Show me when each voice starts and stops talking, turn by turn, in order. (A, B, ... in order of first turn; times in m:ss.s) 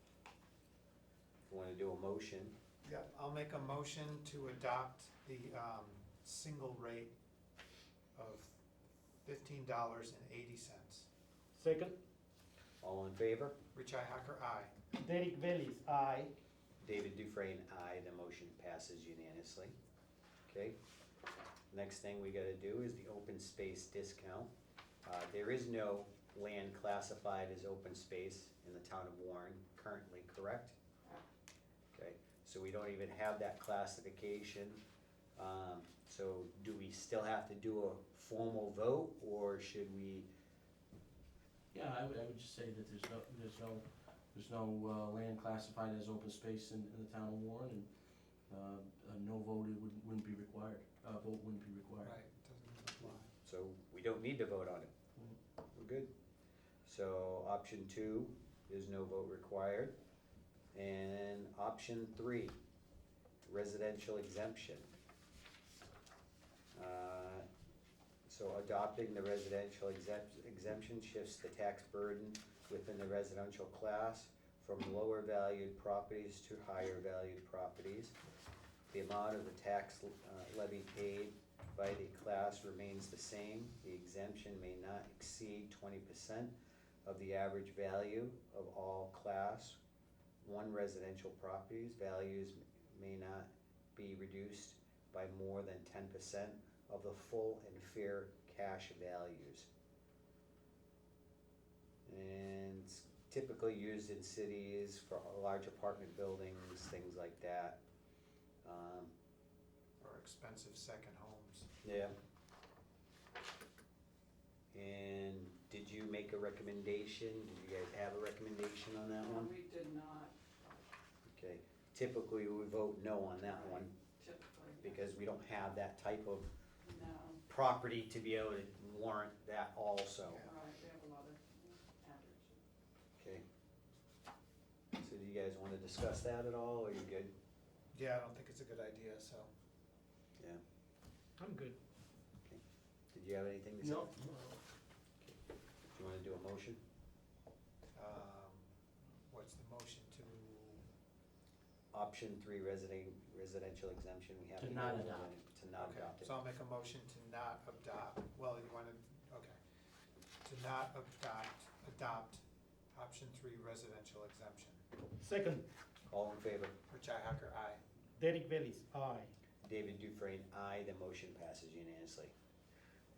0:01.5-0:02.5 A
0:02.8-0:07.1 B
0:08.2-0:08.6 B
0:09.2-0:11.1 B
0:11.6-0:12.0 C
0:12.8-0:13.6 A
0:13.7-0:14.7 B
0:14.9-0:16.3 C
0:16.8-0:19.7 A
0:20.5-0:20.8 A
0:21.7-0:24.5 A
0:25.0-0:30.8 A
0:31.9-0:34.8 A
0:35.4-0:40.3 A
0:41.7-0:47.9 D
0:48.5-0:52.2 D
0:52.0-0:53.3 B
0:53.0-0:54.9 A
0:55.8-0:56.1 A
0:56.9-0:59.9 A
1:00.7-1:02.5 A
1:03.4-1:04.9 A
1:06.7-1:07.4 A
1:08.3-1:18.2 A
1:18.9-1:26.5 A
1:27.0-1:29.8 A
1:30.4-1:39.7 A
1:42.1-1:47.8 A
1:48.6-1:49.1 A
1:50.0-1:51.7 B
1:51.8-1:52.1 A
1:54.7-1:59.5 A
1:59.2-2:00.8 E
2:01.3-2:03.9 A
2:03.4-2:05.1 E
2:04.8-2:06.5 A
2:06.8-2:07.4 E
2:07.5-2:10.5 A
2:10.3-2:10.5 B
2:10.5-2:12.6 E
2:13.2-2:13.4 A
2:15.0-2:17.3 A
2:17.9-2:19.5 B
2:21.4-2:21.8 C
2:23.1-2:24.1 A
2:23.8-2:24.6 D
2:26.0-2:26.8 A
2:28.0-2:28.7 B
2:29.3-2:30.8 B
2:31.9-2:36.3 A
2:34.6-2:35.3 D
2:35.8-2:39.6 B
2:40.4-2:44.8 B
2:45.2-2:45.7 C
2:46.1-2:46.7 A
2:46.9-2:47.8 B
2:48.2-2:49.3 C
2:49.6-2:52.3 A